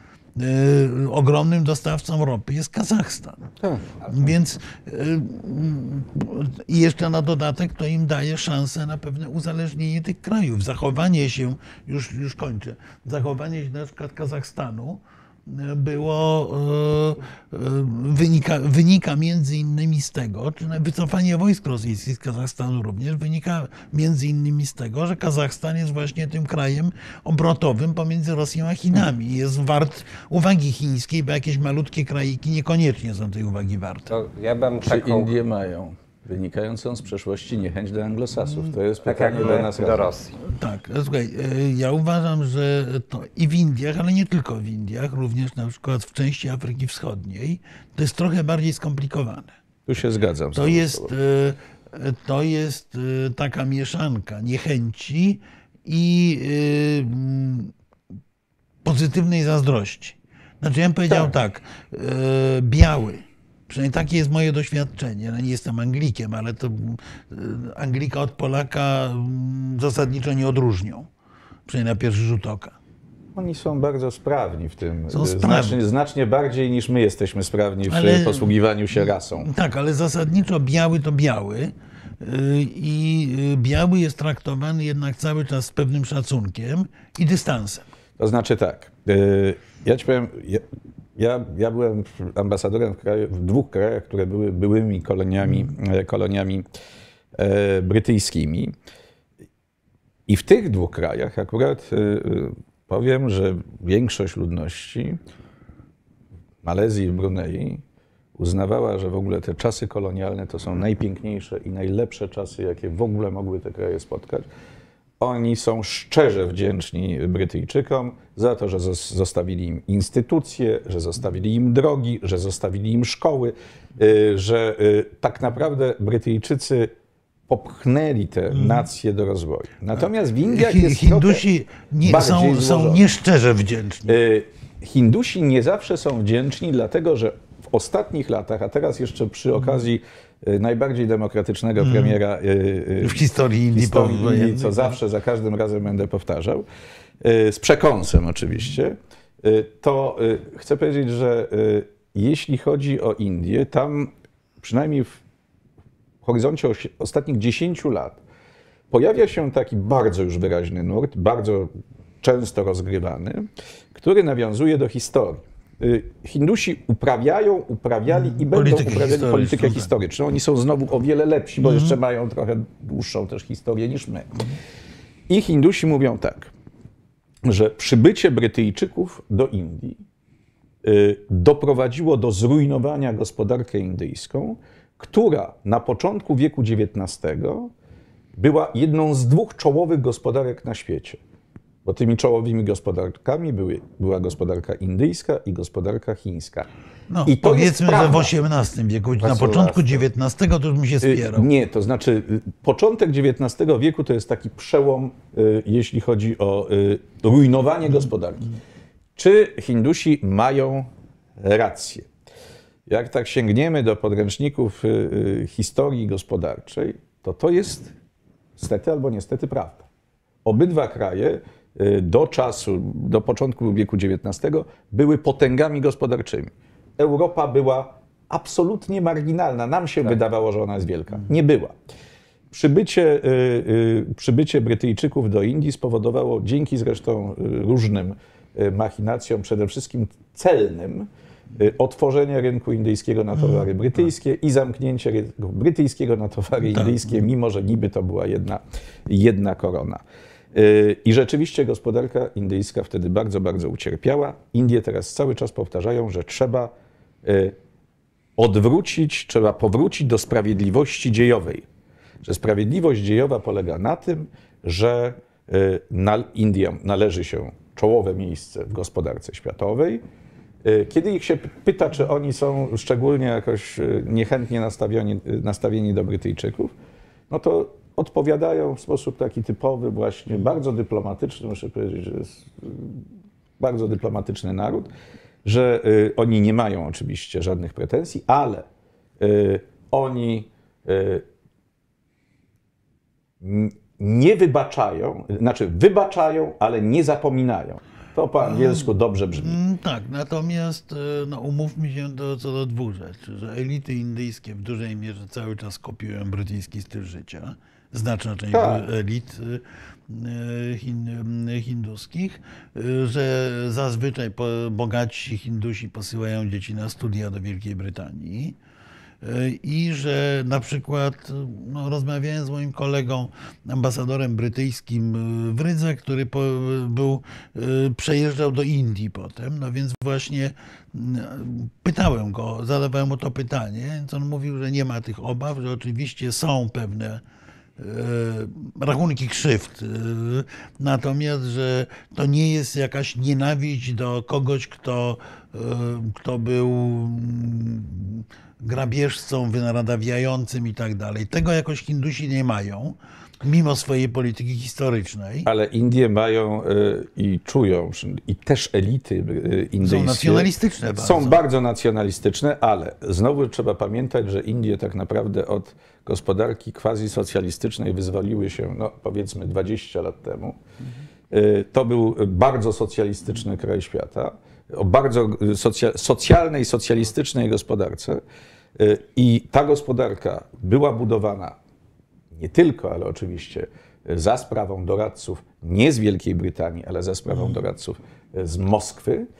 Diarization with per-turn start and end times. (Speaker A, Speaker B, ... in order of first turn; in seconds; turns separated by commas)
Speaker A: 0.4-3.5, Speaker A: 4.1-34.1, Speaker B: 34.1-35.3, Speaker C: 34.8-40.1, Speaker B: 39.0-40.3, Speaker A: 40.4-49.5, Speaker C: 49.9-51.1, Speaker A: 50.5-57.7, Speaker A: 58.8-71.1, Speaker A: 71.7-72.8, Speaker C: 73.3-79.5, Speaker A: 75.1-75.8, Speaker A: 77.9-78.5, Speaker A: 79.3-87.8, Speaker C: 88.2-90.6, Speaker C: 91.2-96.7, Speaker C: 97.4-98.7, Speaker C: 100.3-105.2, Speaker C: 106.6-107.8, Speaker C: 108.4-114.5, Speaker C: 115.2-126.9, Speaker C: 127.5-131.4, Speaker A: 128.5-128.8, Speaker A: 130.5-134.2, Speaker C: 132.0-133.1, Speaker C: 134.1-146.6, Speaker A: 141.8-142.2, Speaker A: 143.0-144.9, Speaker C: 147.2-155.2, Speaker C: 156.2-158.2, Speaker C: 158.9-161.7, Speaker C: 162.2-174.3, Speaker A: 168.1-169.9, Speaker A: 171.6-171.9, Speaker C: 175.3-176.5, Speaker C: 177.4-180.0, Speaker C: 180.8-187.7, Speaker C: 188.3-191.2, Speaker C: 191.8-196.7, Speaker A: 197.1-201.5, Speaker C: 197.2-198.3, Speaker B: 199.2-200.0, Speaker C: 201.0-208.5, Speaker C: 209.2-212.1, Speaker C: 212.9-217.9, Speaker C: 218.6-219.8, Speaker C: 220.4-231.7, Speaker C: 232.5-250.0, Speaker A: 243.4-243.7, Speaker A: 246.7-246.9, Speaker C: 250.5-256.7, Speaker C: 257.2-257.6, Speaker C: 258.4-261.6, Speaker C: 262.2-270.0, Speaker C: 270.6-276.7, Speaker C: 277.3-283.0, Speaker C: 283.6-284.9, Speaker C: 285.4-288.6, Speaker C: 289.2-291.2, Speaker C: 293.4-299.6, Speaker A: 298.4-318.6, Speaker C: 308.5-308.8, Speaker A: 319.2-337.2, Speaker A: 337.8-355.5, Speaker C: 355.4-370.6, Speaker A: 359.8-361.4, Speaker C: 371.3-378.2, Speaker C: 378.8-381.6, Speaker C: 382.3-389.3